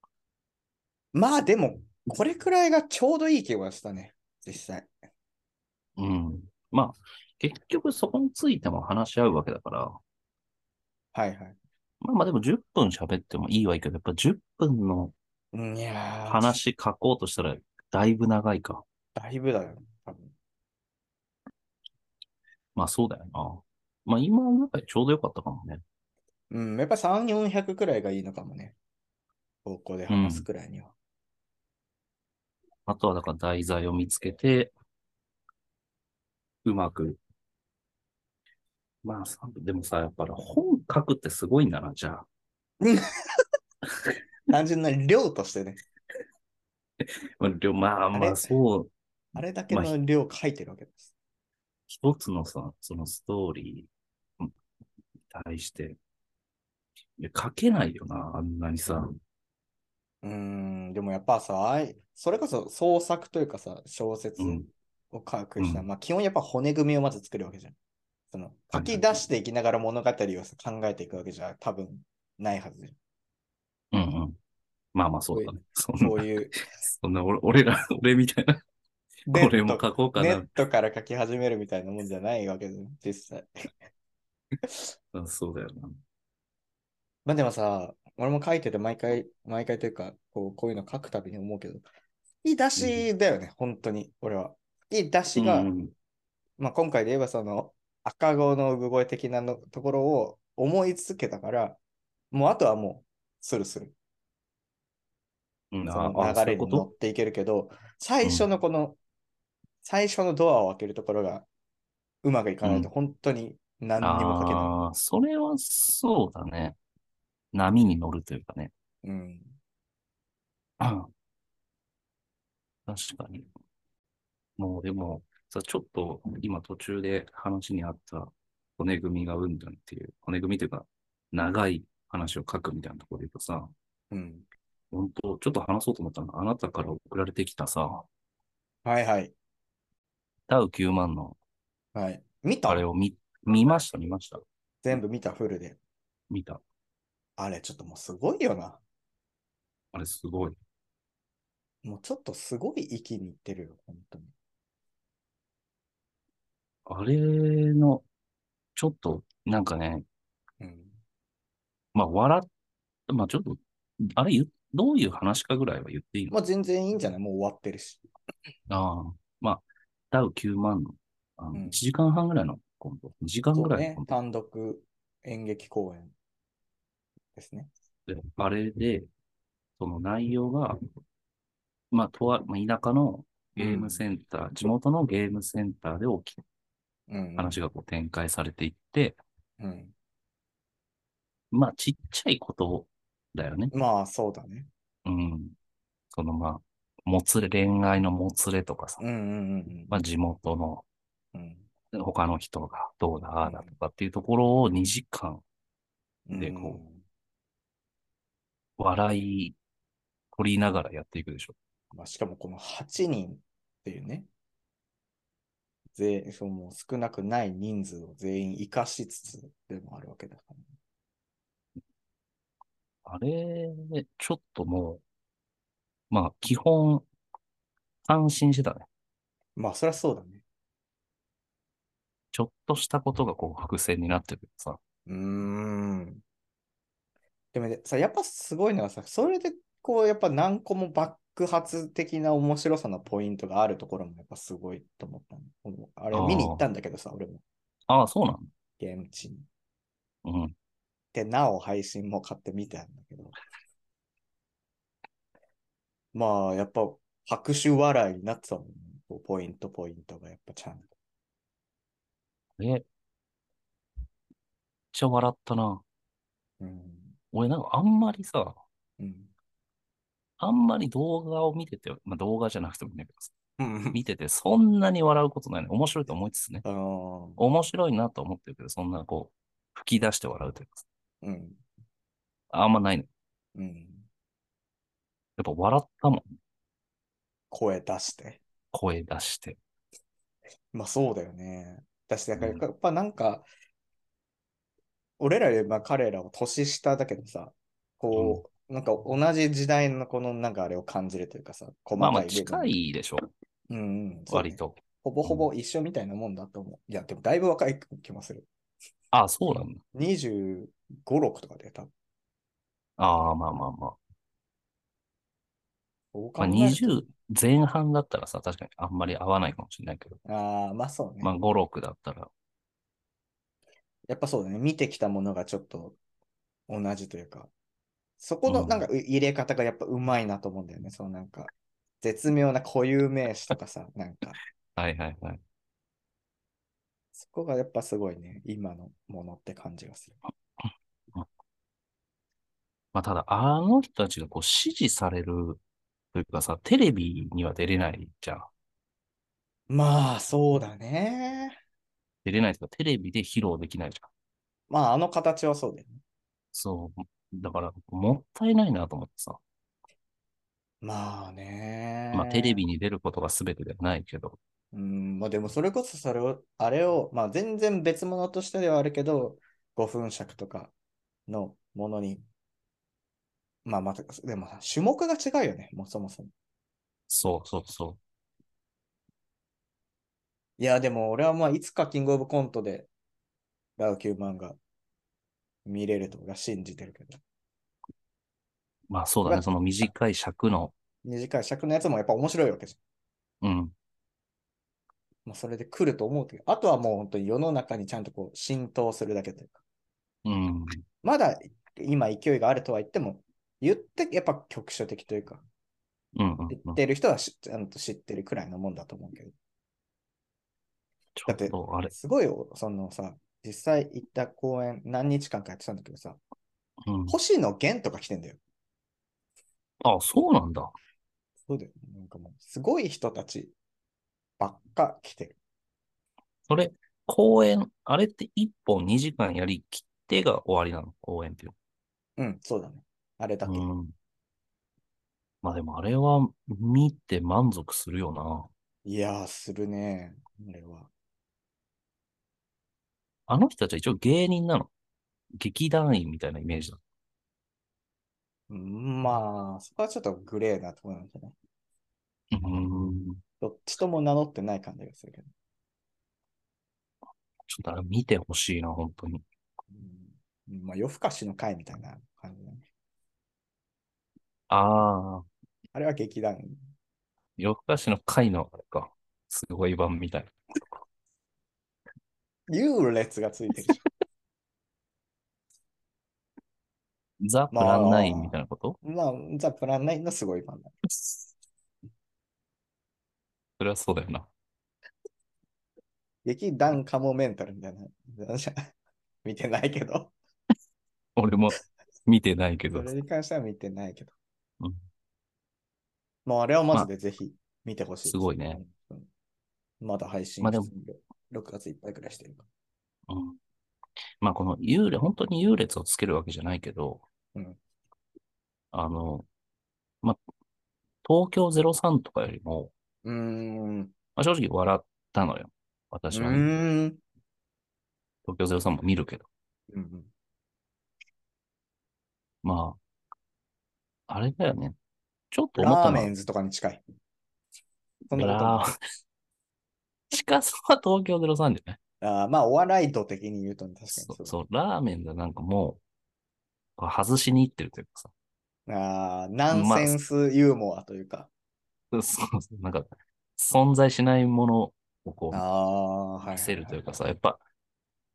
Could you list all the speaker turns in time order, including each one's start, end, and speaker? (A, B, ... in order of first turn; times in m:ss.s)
0:01.1-0:04.9 A
0:06.0-0:10.0 B
0:11.1-0:11.6 A
0:12.0-0:15.1 B
0:15.5-0:16.6 A
0:16.3-0:18.8 B
0:19.2-0:20.3 A
0:22.7-0:25.8 B
0:26.5-0:28.8 A
0:29.6-0:30.9 A
0:30.1-0:30.4 B
0:32.8-0:34.7 B
0:36.6-0:37.2 B
0:39.0-0:42.2 B
0:42.8-0:43.1 A
0:44.5-0:45.8 A
0:47.0-0:48.9 B
0:48.1-0:48.5 A
0:49.4-0:51.1 A
0:51.9-0:54.5 B
0:55.3-0:56.0 B
0:57.2-0:59.2 B
1:00.2-1:07.8 A
1:04.4-1:04.7 B
1:05.6-1:05.8 B
1:08.3-1:13.0 A
1:08.7-1:09.2 B
1:13.9-1:14.4 B
1:14.9-1:16.2 B
1:15.3-1:16.6 A
1:16.8-1:18.6 B
1:19.3-1:23.5 A
1:19.3-1:20.5 B
1:25.1-1:26.0 B
1:27.2-1:31.8 A
1:32.4-1:35.7 A
1:32.8-1:33.0 B
1:35.4-1:35.9 B
1:36.6-1:41.8 A
1:42.3-1:43.9 A
1:45.7-1:46.9 B
1:45.8-1:49.0 A
1:49.8-1:51.4 A
1:52.2-1:54.7 A
1:52.6-1:52.9 B
1:54.0-1:56.8 B
1:57.5-1:58.7 B
1:59.0-1:59.6 A
2:00.8-2:01.1 B
2:02.8-2:03.5 B
2:04.6-2:13.7 B
2:14.1-2:14.4 A
2:14.9-2:18.0 B
2:18.8-2:19.3 A
2:20.5-2:21.4 B
2:21.9-2:22.8 A
2:22.7-2:24.9 B
2:24.8-2:25.8 A
2:26.3-2:26.6 B
2:27.4-2:28.8 A
2:29.9-2:30.6 B
2:31.8-2:34.3 A
2:36.8-2:38.0 B
2:38.7-2:40.0 B
2:40.6-2:40.9 A
2:41.9-2:42.5 B
2:43.1-2:46.3 B
2:46.3-2:48.0 A
2:48.7-2:54.1 B
2:51.5-2:51.8 A
2:53.5-2:56.1 A
2:57.3-2:57.7 A
2:58.1-2:59.1 B
2:59.8-3:00.8 B
3:01.9-3:06.4 B
3:03.6-3:04.0 A
3:07.1-3:07.6 A
3:07.4-3:09.2 B
3:09.6-3:09.9 A
3:11.5-3:13.7 B
3:13.7-3:14.7 A
3:15.0-3:15.5 B
3:16.1-3:19.0 B
3:19.0-3:20.0 A
3:19.9-3:20.8 B
3:21.3-3:21.7 A
3:21.9-3:25.4 B
3:23.4-3:23.7 A
3:26.3-3:27.0 A
3:26.4-3:26.8 B
3:28.8-3:29.6 B
3:30.3-3:31.5 B
3:31.9-3:34.3 A
3:35.9-3:40.6 A
3:43.0-3:45.0 B
3:46.1-3:47.1 B
3:48.0-3:48.9 B
3:49.6-3:50.4 A
3:52.3-3:54.8 B
3:55.1-3:56.2 A
3:57.5-4:07.4 A
4:06.1-4:06.6 B
4:07.9-4:08.5 B
4:08.8-4:09.4 A
4:10.2-4:10.5 B
4:11.1-4:13.3 A
4:16.1-4:20.9 A
4:22.6-4:22.8 B
4:24.9-4:25.8 B
4:26.6-4:27.2 A
4:27.3-4:28.6 B
4:29.0-4:29.3 A
4:30.4-4:33.3 B
4:33.6-4:34.0 A
4:33.9-4:36.6 B
4:36.6-4:37.4 A
4:37.4-4:40.8 B
4:41.2-4:41.6 A
4:42.5-4:43.1 B
4:43.5-4:44.0 A
4:45.4-4:46.2 B
4:47.5-4:48.4 A
4:48.7-4:49.6 B
4:50.7-4:53.5 A
4:52.4-4:52.6 B
4:55.2-5:02.7 A
4:58.1-4:58.4 B
5:02.0-5:03.3 B
5:03.7-5:08.5 A
5:04.3-5:05.5 B
5:09.1-5:09.8 B
5:09.9-5:11.9 A
5:13.0-5:14.0 B
5:16.1-5:17.1 A
5:16.4-5:20.2 B
5:20.2-5:21.3 A
5:21.2-5:22.3 B
5:24.1-5:26.0 A
5:26.7-5:27.5 A
5:28.2-5:34.4 A
5:28.5-5:28.8 B
5:34.8-5:35.4 B
5:37.2-5:40.2 A
5:42.9-5:45.6 B
5:46.1-5:48.5 B
5:49.7-5:51.6 A
5:52.2-5:54.1 B
5:54.7-5:56.0 A
5:56.5-5:59.4 B
6:00.8-6:02.6 A
6:02.1-6:04.4 B
6:04.7-6:10.7 A
6:11.3-6:12.2 A
6:13.6-6:16.3 A
6:17.1-6:18.0 B
6:20.6-6:22.9 A
6:23.8-6:24.6 A
6:25.6-6:27.2 A
6:28.9-6:30.7 B
6:31.0-6:32.8 A
6:33.4-6:33.7 B
6:35.2-6:39.6 A
6:40.2-6:40.8 B
6:41.0-6:45.4 A
6:46.2-6:46.8 B
6:46.5-6:49.3 A
6:51.1-6:51.9 B
6:51.3-6:56.2 A
6:56.8-6:57.1 B
6:57.1-6:58.4 A
6:59.8-7:00.7 B
7:01.5-7:03.5 A
7:04.4-7:05.4 A
7:06.5-7:11.5 B
7:12.2-7:13.6 A
7:13.4-7:13.9 B
7:15.4-7:18.5 B
7:18.8-7:20.9 A
7:23.3-7:24.7 B
7:25.4-7:26.8 B
7:28.5-7:31.3 A
7:32.3-7:33.2 B
7:33.4-7:35.3 A
7:37.5-7:39.2 B
7:39.7-7:42.6 A
7:44.5-7:45.2 B
7:45.7-7:46.6 A
7:47.4-7:50.4 B
7:52.5-7:53.8 A
7:57.2-7:58.8 B
7:57.5-8:00.8 A
8:03.6-8:04.3 B
8:06.2-8:08.7 A
8:09.2-8:10.1 A
8:11.2-8:12.9 B
8:12.7-8:14.1 A
8:16.2-8:19.1 A
8:18.0-8:18.6 B
8:19.8-8:22.5 A
8:20.4-8:20.7 B
8:23.1-8:23.4 B
8:24.2-8:27.0 B
8:27.3-8:27.6 A
8:28.7-8:29.2 B
8:31.0-8:32.7 B
8:33.0-8:33.9 A
8:34.2-8:36.6 B
8:36.1-8:37.0 A
8:38.2-8:39.3 B
8:39.7-8:40.1 A
8:42.4-8:42.8 B
8:44.1-8:44.8 B
8:45.3-8:46.1 B
8:45.6-8:46.8 A
8:48.1-8:48.7 A
8:48.1-8:48.7 B
8:50.1-8:51.8 B
8:52.0-8:54.3 A
8:54.0-8:55.8 B
8:56.8-8:58.1 B
8:58.7-9:01.3 A
8:59.5-9:00.0 B
9:01.9-9:05.4 B
9:05.3-9:06.8 A
9:06.2-9:07.4 B